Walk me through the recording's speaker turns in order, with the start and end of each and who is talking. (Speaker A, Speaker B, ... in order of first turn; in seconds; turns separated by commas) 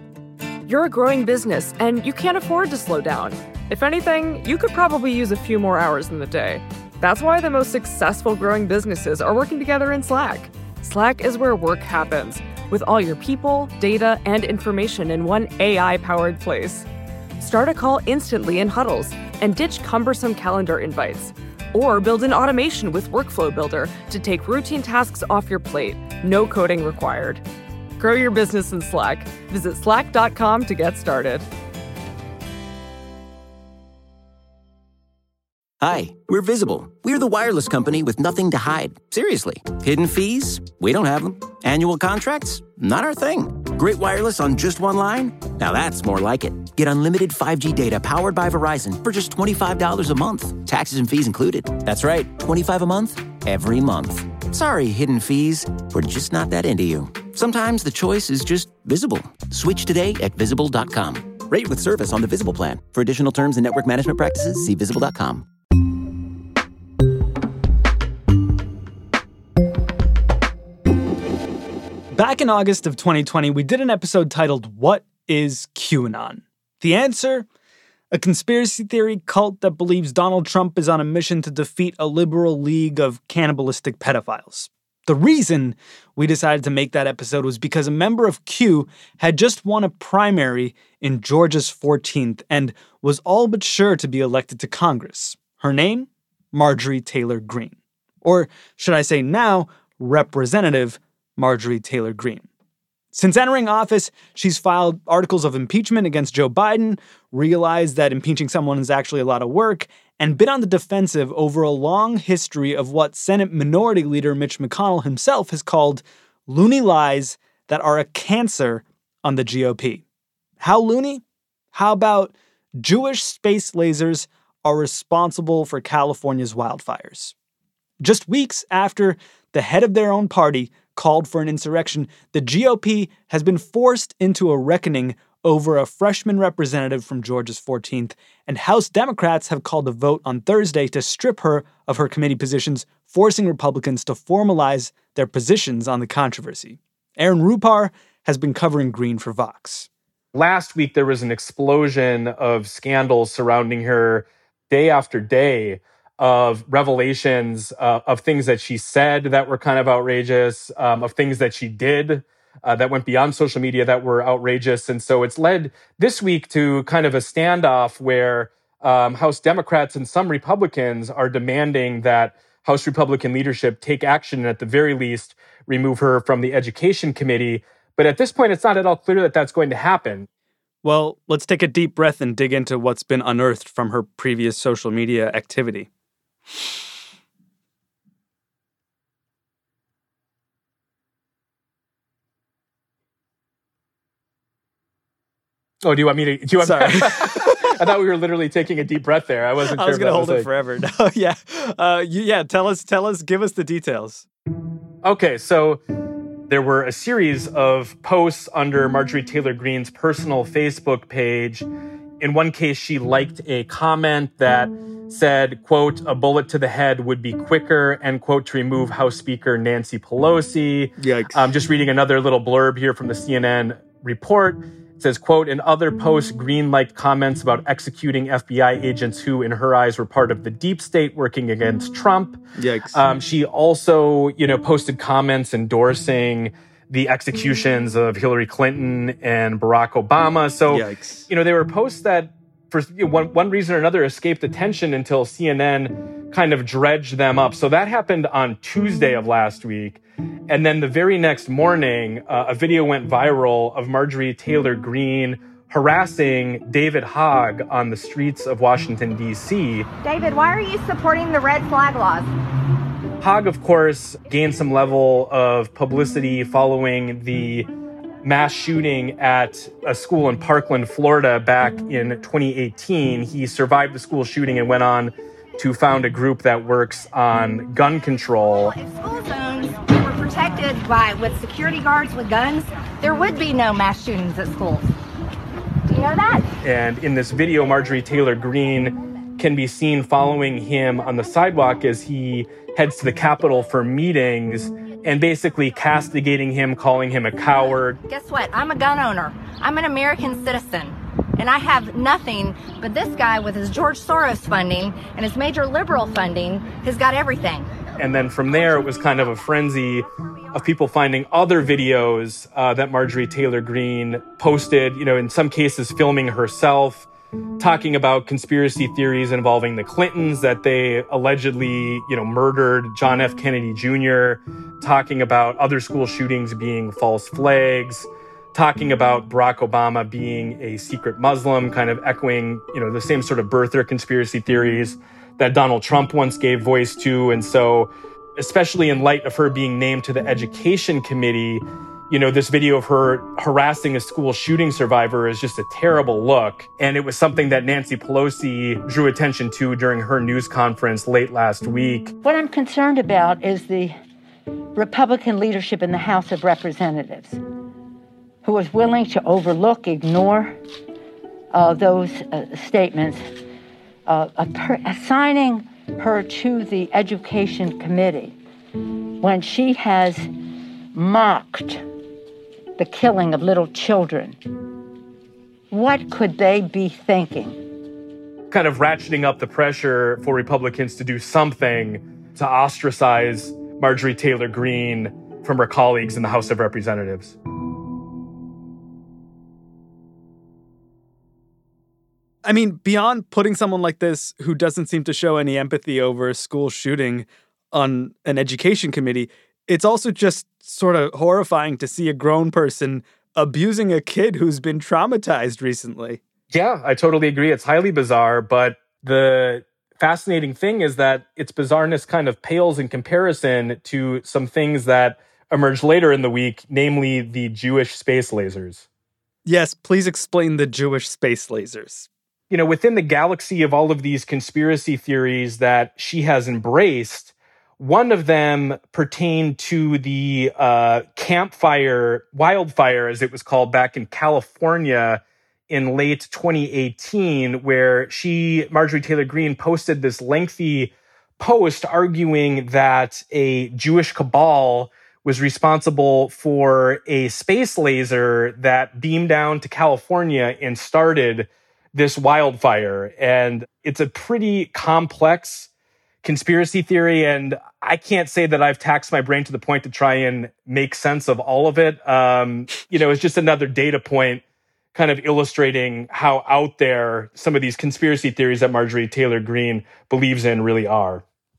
Speaker A: 0.7-16.9, Speaker A: 17.4-27.4, Speaker A: 28.0-31.5, Speaker B: 35.8-65.5, Speaker C: 72.1-77.5, Speaker C: 78.1-102.5, Speaker C: 103.1-120.0, Speaker C: 120.6-127.3, Speaker C: 128.0-149.9, Speaker D: 150.3-180.3, Speaker C: 180.8-185.9, Speaker D: 195.8-200.5, Speaker C: 196.6-197.9, Speaker C: 199.7-204.3, Speaker D: 205.0-205.8, Speaker D: 206.5-211.7, Speaker D: 212.2-232.4, Speaker C: 221.0-221.5, Speaker C: 232.6-233.2, Speaker D: 232.9-259.9, Speaker C: 240.7-241.3, Speaker E: 260.0-262.3, Speaker D: 263.2-267.7, Speaker D: 268.2-278.7, Speaker E: 278.6-284.9, Speaker E: 285.9-286.5, Speaker D: 286.6-298.0, Speaker E: 298.1-307.7, Speaker D: 308.0-317.1, Speaker D: 317.6-352.1, Speaker F: 352.2-354.0, Speaker F: 354.8-357.4, Speaker F: 358.4-360.6, Speaker F: 361.5-363.3, Speaker F: 364.1-368.4, Speaker F: 369.2-370.3, Speaker F: 370.9-371.8, Speaker F: 372.8-374.4, Speaker F: 375.7-377.6, Speaker D: 378.5-387.4, Speaker C: 392.4-406.2, Speaker D: 406.5-418.9, Speaker C: 419.5-422.1, Speaker D: 422.5-455.7, Speaker D: 456.2-464.4, Speaker D: 464.9-471.2